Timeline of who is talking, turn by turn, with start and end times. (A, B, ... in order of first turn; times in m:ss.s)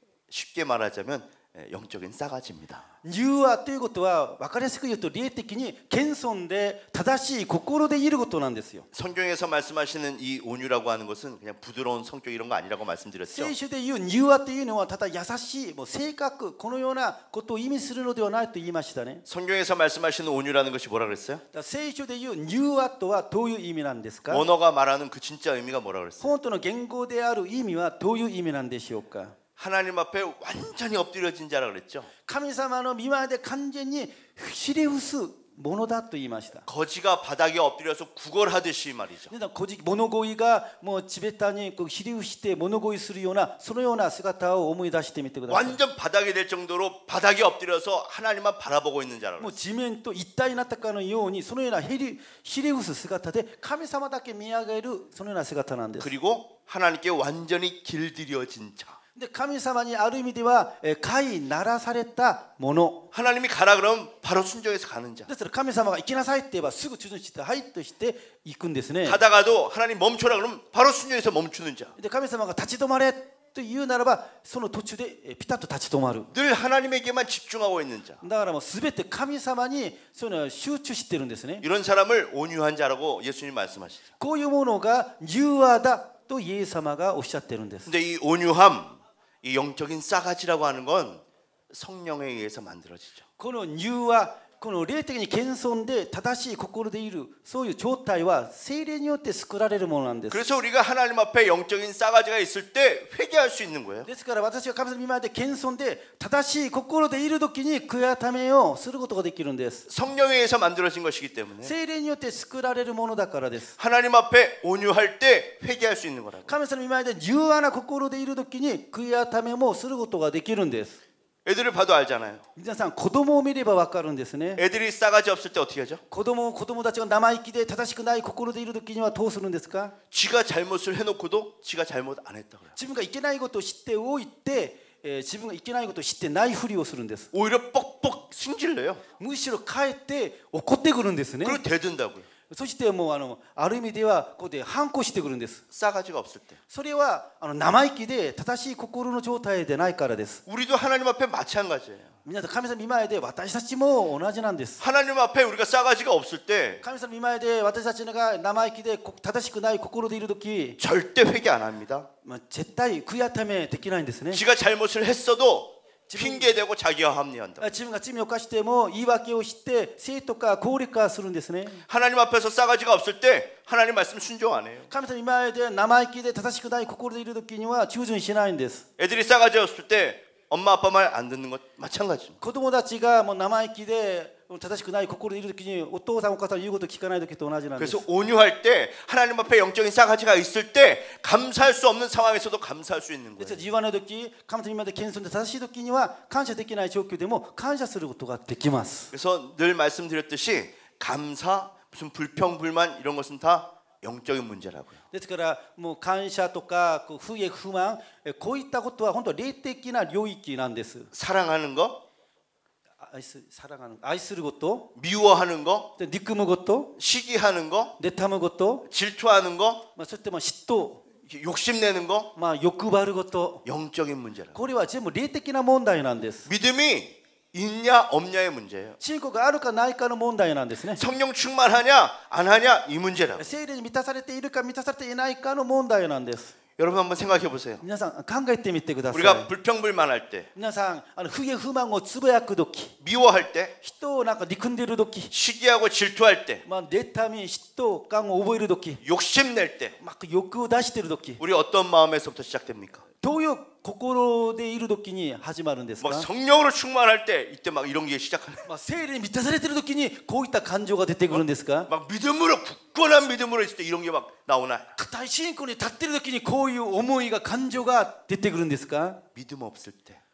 0:00.3-0:02.9 A
0:03.0-0:08.9 B
0:08.9-0:13.5 A
0:13.3-0:19.2 B
0:19.3-0:21.4 A
0:21.5-0:24.4 B
0:24.3-0:26.3 A
0:26.2-0:29.3 B
0:29.6-0:32.1 A
0:32.3-0:36.6 B
0:36.7-0:39.3 A
0:39.3-0:45.8 B
0:45.5-0:49.6 A
0:49.4-0:56.1 B
0:56.0-0:59.0 A
0:59.2-1:03.0 B
1:03.1-1:05.3 A
1:05.3-1:09.2 B
1:09.0-1:12.0 A
1:12.0-1:16.3 B
1:16.3-1:18.2 A
1:18.2-1:21.6 B
1:21.6-1:24.0 A
1:24.2-1:27.9 B
1:27.8-1:33.2 A
1:33.4-1:40.4 B
1:40.3-1:44.1 A
1:44.1-1:49.8 B
1:49.9-1:51.7 A
1:51.6-1:53.7 B
1:53.8-1:56.5 A
1:56.5-2:01.0 B
2:01.4-2:02.5 A
2:02.6-2:04.6 B
2:04.6-2:06.0 A
2:06.1-2:09.9 B
2:10.1-2:12.8 A
2:12.8-2:17.3 B
2:17.3-2:19.0 A
2:19.2-2:21.6 B
2:21.4-2:22.3 A
2:22.5-2:25.6 B
2:25.7-2:26.6 A
2:26.7-2:30.4 B
2:30.5-2:32.1 A
2:32.2-2:34.8 B
2:34.8-2:36.8 A
2:36.8-2:40.8 B
2:40.8-2:42.1 A
2:42.2-2:44.4 B
2:44.3-2:47.7 A
2:46.1-2:46.6 B
2:47.6-2:51.8 B
2:51.9-2:54.9 A
2:54.9-2:58.8 B
2:59.0-3:02.4 A
3:02.4-3:08.0 B
3:07.8-3:13.6 A
3:13.4-3:19.1 B
3:19.1-3:25.0 A
3:25.1-3:31.1 B
3:31.1-3:32.0 A
3:33.0-3:34.9 B
3:35.0-3:35.9 A
3:36.0-3:36.9 B
3:37.0-3:37.9 A
3:38.0-3:38.8 B
3:38.9-3:39.8 A
3:40.0-3:41.0 B
3:41.2-3:42.3 A
3:42.4-3:43.6 B
3:43.6-3:44.5 A
3:44.5-3:46.5 B
3:46.5-3:49.0 A
3:49.0-3:51.0 B
3:50.9-3:53.5 A
3:53.4-3:56.5 B
3:56.8-3:57.8 A
3:57.8-3:59.5 B
3:59.1-4:00.5 A
4:00.5-4:02.9 B
4:03.0-4:03.7 A
4:03.8-4:05.3 B
4:05.3-4:06.6 A
4:06.6-4:09.0 B
4:09.0-4:10.0 A
4:10.0-4:11.4 B
4:11.4-4:13.0 A
4:13.2-4:16.3 B
4:16.0-4:18.7 A
4:18.7-4:21.9 B
4:21.3-4:24.9 A
4:25.0-4:29.2 B
4:29.4-4:30.2 A